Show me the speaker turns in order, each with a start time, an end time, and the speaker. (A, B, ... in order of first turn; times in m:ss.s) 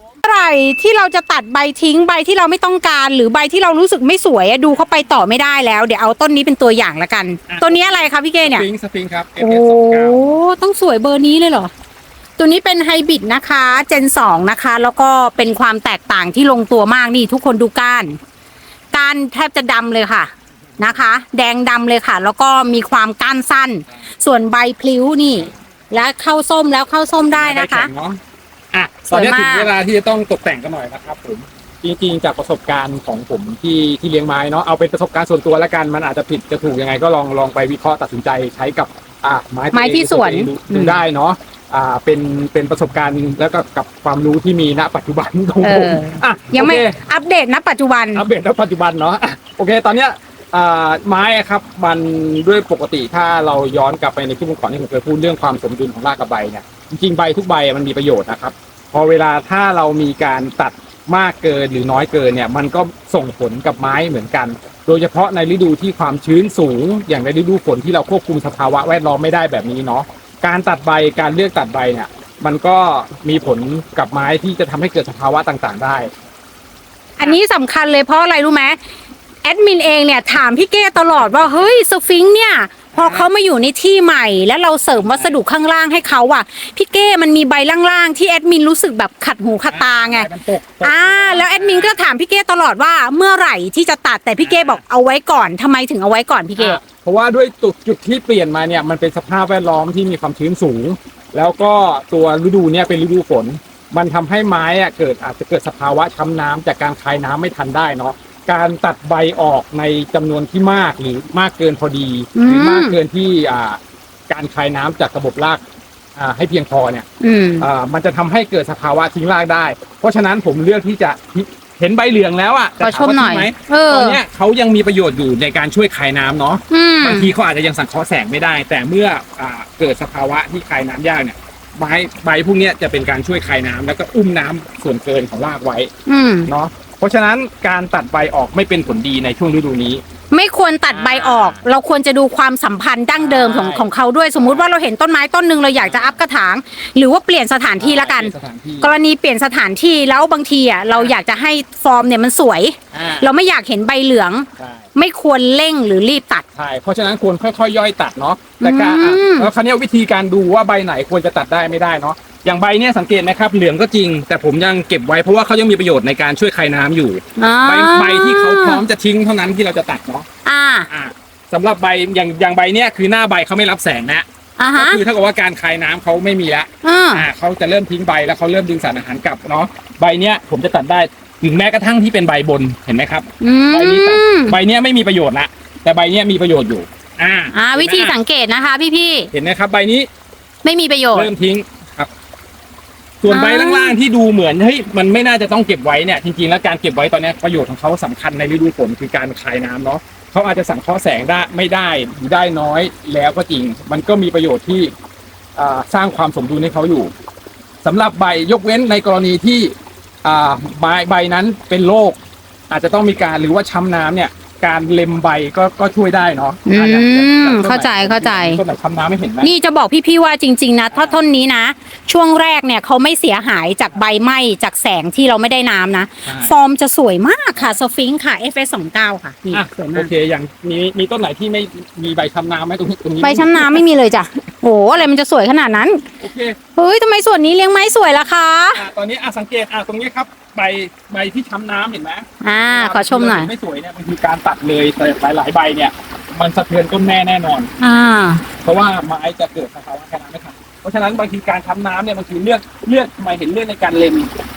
0:00.2-0:08.6 A
0:07.5-0:10.4 B
0:09.4-0:11.7 A
0:12.4-0:18.2 A
0:18.9-0:27.9 A
0:27.3-0:28.2 B
0:28.7-0:47.0 B
0:29.1-0:29.7 A
0:39.7-0:41.0 A
0:45.6-0:48.2 A
0:48.1-1:16.1 B
1:17.2-1:18.8 A
1:19.4-1:30.3 A
1:22.9-1:23.3 B
1:24.9-1:25.4 B
1:29.7-1:32.0 B
1:30.8-1:36.8 A
1:34.4-1:34.8 B
1:36.6-1:55.6 B
1:52.3-1:53.0 A
1:56.2-1:57.0 B
1:57.2-1:57.7 A
1:57.6-2:15.9 B
2:02.8-2:04.2 A
2:06.7-2:07.3 A
2:16.1-2:16.5 A
2:16.5-2:20.0 B
2:20.3-2:36.4 A
2:20.9-2:21.6 B
2:23.1-2:24.7 B
2:25.8-2:26.2 B
2:27.8-2:28.9 B
2:32.9-2:33.3 B
2:34.6-2:34.9 B
2:36.6-2:50.2 B
2:38.6-2:39.5 A
2:47.4-2:48.8 A
2:50.4-2:50.9 A
2:50.9-3:08.2 B
2:54.6-2:55.0 A
2:56.8-2:57.3 A
3:03.4-3:04.6 A
3:07.5-3:09.3 A
3:09.3-3:10.1 B
3:10.6-3:11.3 A
3:11.1-3:12.1 B
3:13.2-3:24.9 B
3:13.3-3:14.0 A
3:25.6-3:27.1 B
3:27.8-3:32.2 B
3:32.7-3:39.5 B
3:36.7-3:38.6 A
3:39.4-3:50.1 A
3:40.9-3:41.2 B
3:46.2-3:46.5 B
3:49.5-3:53.9 B
3:53.2-3:56.0 A
3:56.2-3:56.6 B
3:56.7-3:58.8 A
3:58.7-4:07.7 B
4:02.4-4:03.5 A
4:07.8-4:08.4 A
4:08.6-4:14.3 B